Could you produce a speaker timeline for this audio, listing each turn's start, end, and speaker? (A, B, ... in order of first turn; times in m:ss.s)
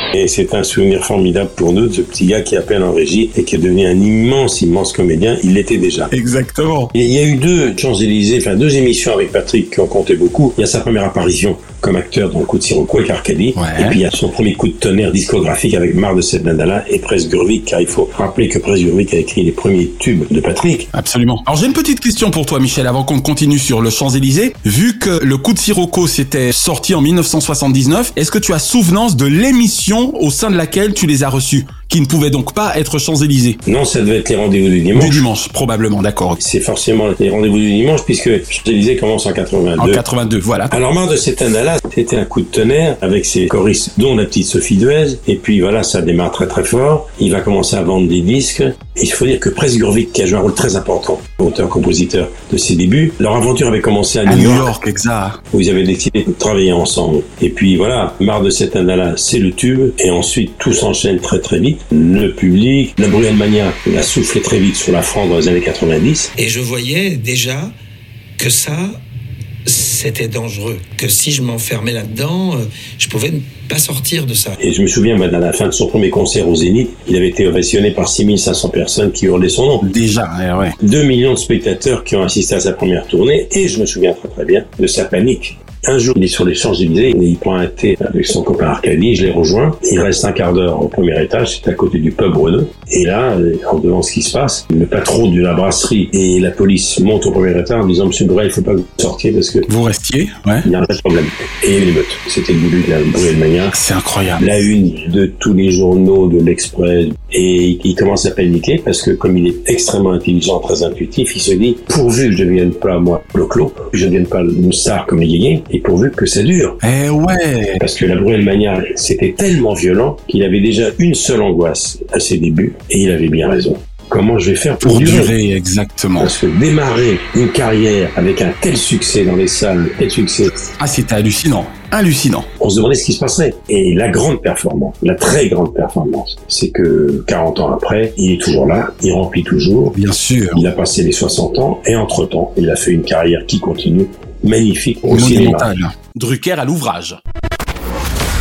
0:00.1-0:06.1 A
0:06.1-0:06.9 B
0:06.9-0:20.9 A
0:13.5-0:14.0 B
0:20.9-0:33.6 B
0:33.6-0:35.2 A
0:34.9-0:36.4 B
0:36.4-0:40.0 A
0:39.8-0:40.7 B
0:40.7-0:54.7 A
0:54.2-0:55.4 B
0:55.5-1:06.3 A
1:06.4-1:07.7 C
1:08.4-1:09.0 C
1:09.6-1:14.6 C
1:14.6-1:19.8 A
1:19.8-1:20.8 B
1:20.8-1:39.6 A
1:39.7-1:40.7 B
1:40.6-1:43.7 A
1:43.7-1:44.4 B
1:44.4-1:56.8 A
1:56.8-1:57.8 B
1:57.8-2:05.3 A
2:04.8-2:06.3 B
2:06.2-2:10.5 A
2:10.7-2:12.5 B
2:12.6-2:19.9 A
2:19.9-2:20.7 B
2:20.5-2:25.7 A
2:25.1-2:27.2 B